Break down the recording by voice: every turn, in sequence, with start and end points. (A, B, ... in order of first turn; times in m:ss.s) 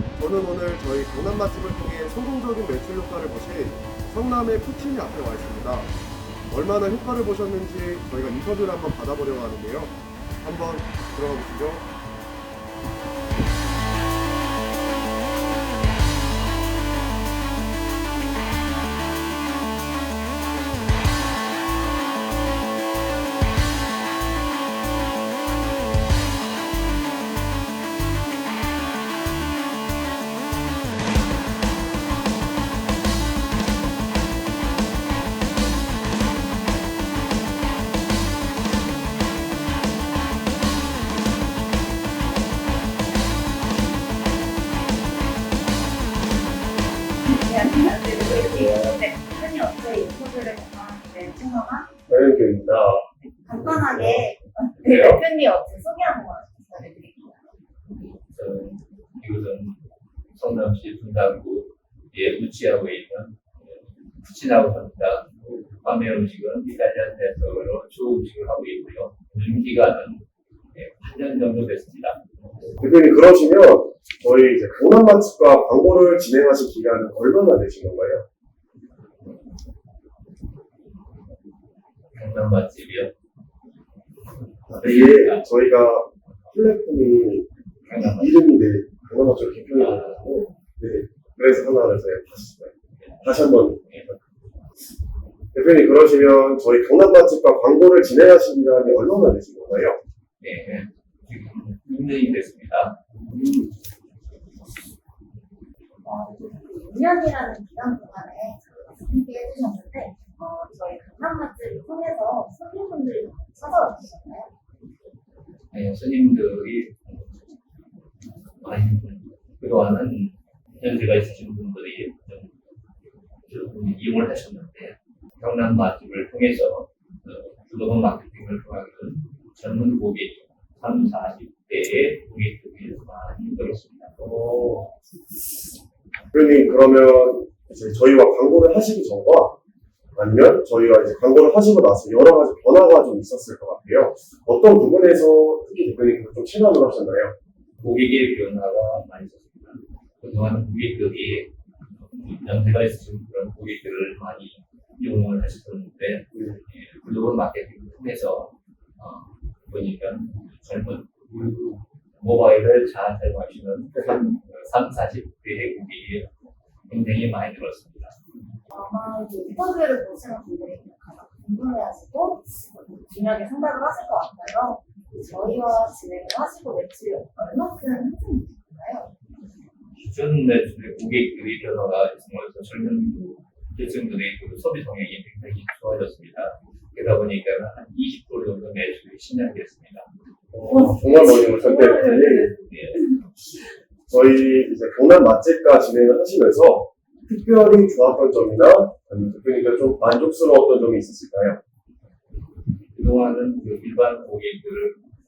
0:00.2-0:05.9 A
0:06.5-0:11.8 A
0:47.2-0:51.9 B
0:48.3-0:49.0 A
0:52.1-0:54.3 A
0:53.4-0:57.6 B
0:54.8-0:55.2 C
0:57.9-0:59.8 C
1:00.3-1:05.3 C
1:05.8-1:12.7 C
1:12.8-1:18.2 A
1:22.1-1:23.1 C
1:24.7-1:34.1 A
1:24.8-1:25.7 C
1:27.8-1:28.4 C
1:29.7-1:30.2 C
1:33.0-1:34.1 C
1:35.5-1:40.0 A
1:40.4-1:43.0 C
1:43.2-1:43.7 A
1:46.0-1:54.5 B
1:55.7-1:57.3 C
1:58.6-2:02.5 C
2:03.5-2:14.1 C
2:14.2-2:14.9 A
2:16.3-2:19.6 A
2:20.2-2:27.3 A
2:27.8-2:41.1 C
2:36.3-2:36.6 A
2:41.3-2:41.8 A
2:42.2-2:46.3 C
2:46.9-2:48.2 C
2:48.7-2:59.1 B
3:00.0-3:10.1 C
3:10.5-3:12.5 A
3:10.7-3:13.2 B
3:12.7-3:13.1 C
3:14.1-3:21.6 A
3:22.9-3:25.0 C